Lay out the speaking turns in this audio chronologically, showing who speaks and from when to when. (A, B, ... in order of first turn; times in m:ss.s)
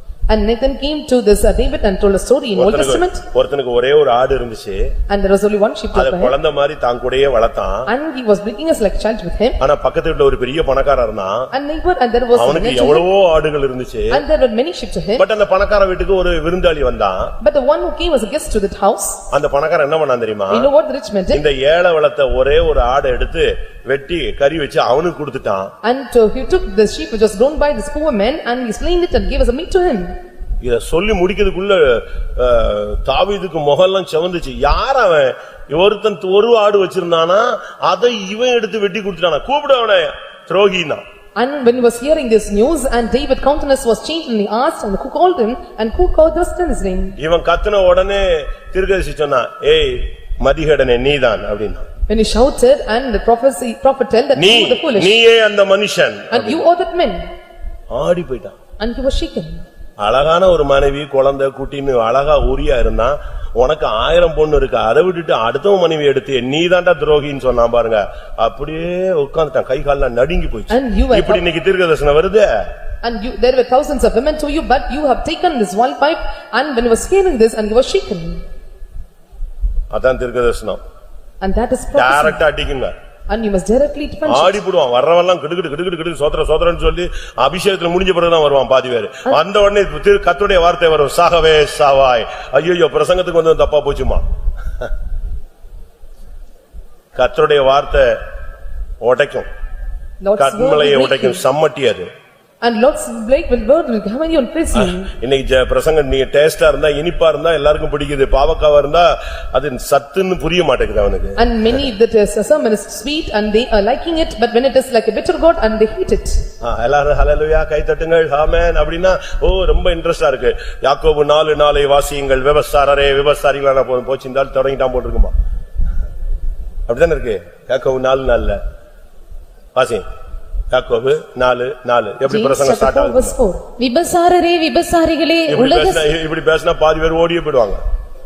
0:00.3-0:03.2 A
0:02.5-0:04.9 B
0:05.1-0:06.3 A
0:05.9-0:07.9 B
0:07.9-0:09.6 A
0:09.6-0:11.5 B
0:11.5-0:13.1 A
0:12.3-0:14.2 B
0:14.1-0:15.2 A
0:15.2-0:17.3 B
0:17.4-0:19.3 A
0:19.3-0:20.7 B
0:20.5-0:21.4 A
0:21.3-0:25.7 B
0:25.8-0:30.2 A
0:30.6-0:41.0 B
0:41.4-0:47.2 A
0:47.2-0:51.9 B
0:52.1-0:55.2 A
0:54.4-0:56.6 B
0:56.3-0:57.2 A
0:57.9-0:58.6 B
0:58.8-0:59.6 A
1:00.0-1:12.7 B
1:10.7-1:11.4 A
1:13.0-1:18.4 A
1:19.9-1:20.8 B
1:21.4-1:22.4 A
1:21.9-1:22.9 B
1:23.3-1:24.6 A
1:24.2-1:34.2 B
1:37.1-1:38.2 B
1:39.0-1:39.5 B
1:40.2-1:41.4 A
1:40.4-1:42.1 B
1:42.6-1:45.1 A
1:44.7-1:51.4 B
1:51.4-1:56.4 A
1:56.6-2:05.3 B
2:06.9-2:08.6 B
2:09.7-2:10.0 B
2:10.7-2:13.4 B
2:12.2-2:13.7 A
2:13.8-2:16.1 C
2:15.5-2:17.8 B